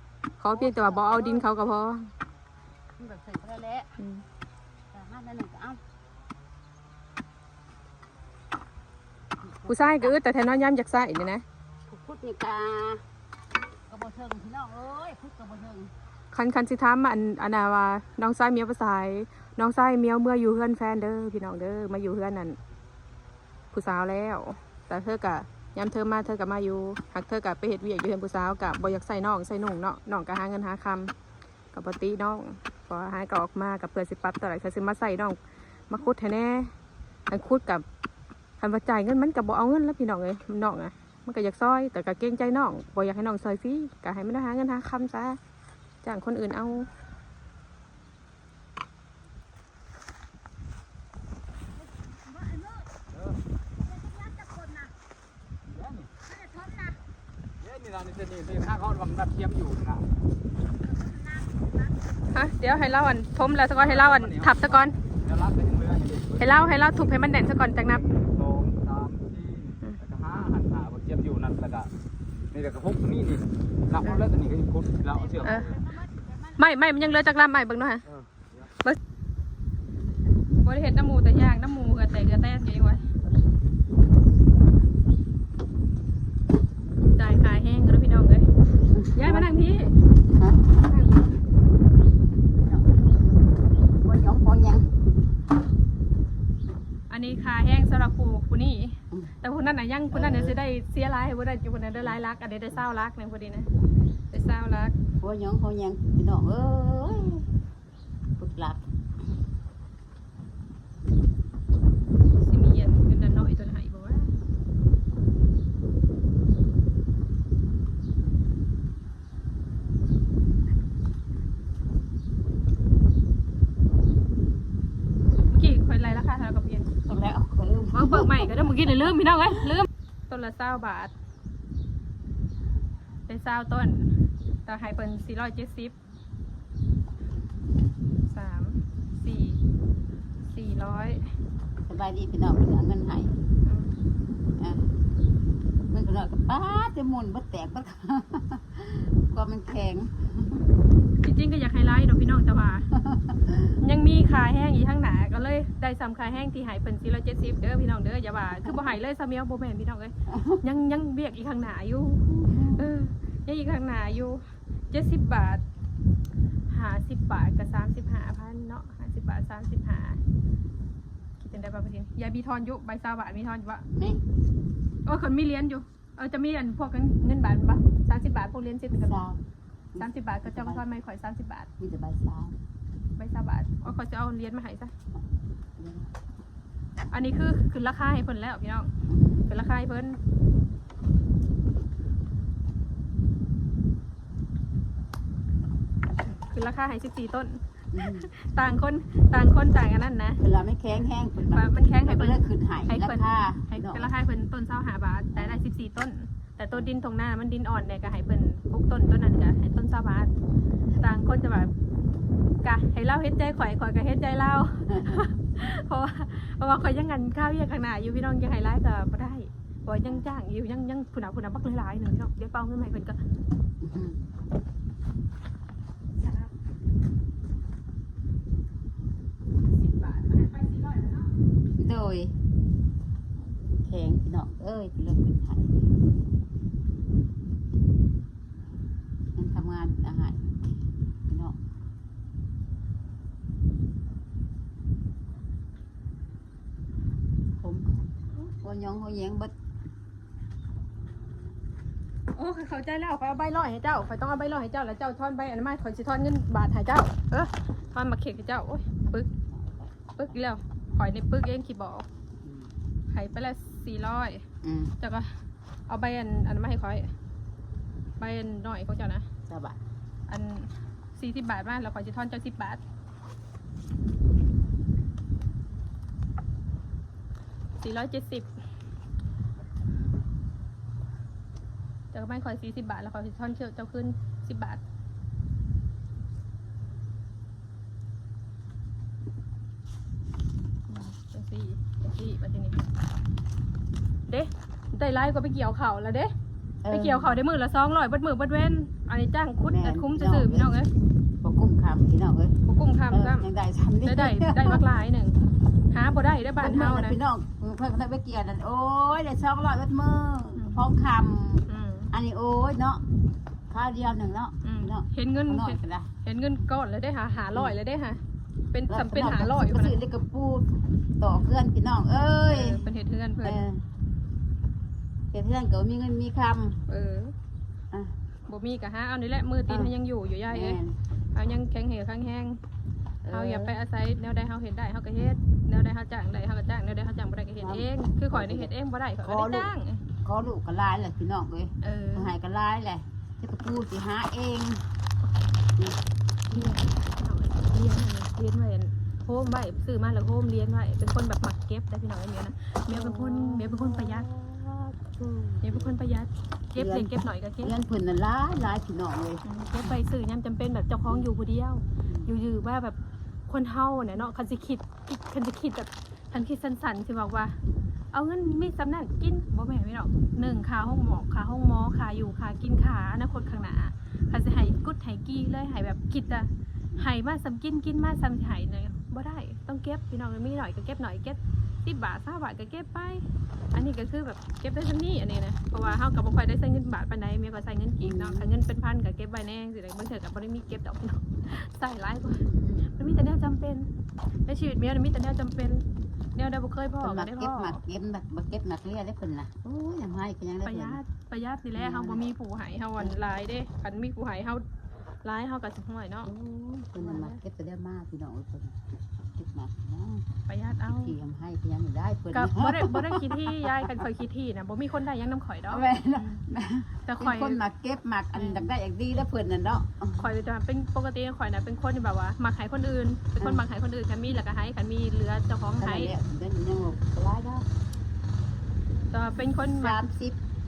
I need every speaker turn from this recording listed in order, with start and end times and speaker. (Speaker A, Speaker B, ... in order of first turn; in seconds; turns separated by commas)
Speaker A: 0.4-2.1, Speaker B: 0.5-1.5, Speaker B: 3.0-3.9, Speaker A: 4.0-4.3, Speaker B: 4.9-5.8, Speaker B: 9.5-10.2, Speaker A: 9.7-11.4, Speaker B: 11.9-13.1, Speaker B: 13.9-15.9, Speaker A: 16.3-22.6, Speaker A: 23.7-31.1, Speaker A: 31.7-36.7, Speaker A: 37.3-37.9, Speaker A: 38.6-45.4, Speaker A: 46.0-46.9, Speaker B: 52.4-52.8, Speaker B: 54.0-54.9, Speaker C: 55.8-56.1, Speaker B: 56.3-56.9, Speaker C: 57.6-60.0, Speaker B: 61.0-61.7, Speaker A: 62.3-65.0, Speaker C: 63.8-67.0, Speaker A: 66.4-68.0, Speaker C: 67.9-71.9, Speaker C: 72.5-75.7, Speaker B: 75.2-75.8, Speaker A: 75.4-75.8, Speaker A: 76.5-78.0, Speaker C: 78.1-78.5, Speaker A: 80.6-83.1, Speaker A: 87.2-88.5, Speaker B: 88.9-89.5, Speaker A: 89.2-90.0, Speaker B: 90.3-90.6, Speaker A: 90.8-91.3, Speaker B: 92.6-93.1, Speaker B: 94.0-95.1, Speaker A: 97.1-103.7, Speaker B: 100.1-100.6, Speaker A: 104.3-105.0, Speaker B: 105.2-107.5, Speaker B: 108.4-108.8, Speaker A: 112.4-114.3, Speaker A: 125.5-126.9, Speaker B: 127.0-128.8, Speaker A: 127.9-131.1, Speaker A: 133.3-134.1, Speaker A: 134.7-135.9, Speaker A: 138.2-139.6, Speaker A: 140.5-141.3, Speaker B: 141.8-143.4, Speaker A: 143.7-143.9, Speaker B: 144.6-144.9, Speaker B: 145.9-150.6, Speaker A: 151.2-152.9, Speaker B: 153.0-153.7, Speaker A: 153.8-165.6, Speaker B: 160.3-160.6, Speaker B: 162.4-162.9, Speaker A: 166.7-170.2, Speaker A: 171.4-173.8, Speaker B: 174.0-174.2, Speaker A: 175.1-179.2, Speaker B: 178.9-179.4, Speaker B: 179.9-180.8, Speaker A: 180.0-181.7, Speaker B: 181.8-182.6, Speaker A: 183.2-184.9, Speaker B: 185.8-186.1, Speaker A: 187.1-188.9, Speaker B: 189.1-189.5, Speaker A: 189.5-190.2, Speaker A: 196.3-200.4, Speaker B: 197.9-198.3, Speaker B: 200.4-204.1, Speaker A: 201.5-210.3, Speaker B: 205.3-205.6, Speaker A: 211.0-211.7, Speaker A: 212.6-223.2, Speaker B: 214.9-215.2, Speaker B: 223.8-224.2, Speaker A: 226.2-226.5, Speaker A: 229.7-231.3, Speaker B: 231.8-232.4, Speaker B: 233.8-235.9, Speaker B: 239.3-240.7, Speaker B: 241.3-241.6, Speaker B: 247.6-249.5, Speaker A: 252.3-259.3, Speaker B: 259.5-260.5, Speaker A: 260.2-262.1, Speaker B: 262.4-262.7, Speaker A: 263.1-264.5, Speaker B: 264.6-264.9, Speaker A: 265.0-267.1, Speaker A: 268.2-269.3, Speaker B: 269.5-269.8, Speaker A: 270.3-272.8, Speaker A: 277.8-278.5, Speaker A: 282.1-284.8, Speaker A: 290.9-292.8, Speaker A: 294.3-296.3, Speaker B: 296.8-297.4, Speaker A: 296.9-300.9, Speaker B: 299.7-300.8, Speaker B: 301.4-302.6, Speaker A: 302.6-303.5, Speaker B: 303.1-304.9, Speaker A: 304.1-307.2, Speaker B: 306.6-313.0, Speaker A: 311.7-312.1, Speaker B: 313.7-316.1, Speaker A: 314.6-318.2, Speaker A: 318.7-319.9, Speaker B: 318.9-322.9, Speaker A: 322.5-323.6, Speaker B: 323.4-323.9, Speaker B: 325.3-326.8, Speaker A: 326.9-327.3, Speaker A: 328.5-330.8, Speaker B: 329.7-329.9, Speaker B: 330.5-331.0, Speaker A: 331.3-332.6, Speaker B: 333.2-333.8, Speaker A: 333.3-340.0, Speaker B: 337.6-344.9, Speaker A: 341.8-342.4, Speaker A: 346.5-354.3, Speaker B: 352.9-355.9, Speaker A: 355.6-357.8, Speaker B: 356.8-359.4, Speaker A: 359.4-367.6, Speaker B: 362.0-362.3, Speaker A: 368.1-393.9, Speaker B: 370.4-370.6, Speaker B: 388.0-388.5, Speaker B: 392.5-392.9, Speaker A: 394.5-395.9, Speaker A: 396.4-397.8, Speaker B: 397.0-401.0, Speaker A: 400.6-404.6, Speaker B: 401.8-402.3, Speaker A: 405.2-406.3, Speaker B: 406.2-410.3, Speaker A: 407.0-407.4, Speaker A: 410.5-411.2, Speaker B: 410.8-413.6, Speaker A: 412.3-416.4, Speaker B: 415.7-420.3, Speaker A: 417.1-417.6, Speaker A: 418.4-418.7, Speaker A: 420.2-426.1, Speaker B: 423.4-423.7, Speaker B: 425.8-427.7, Speaker A: 429.1-430.0, Speaker B: 429.6-430.4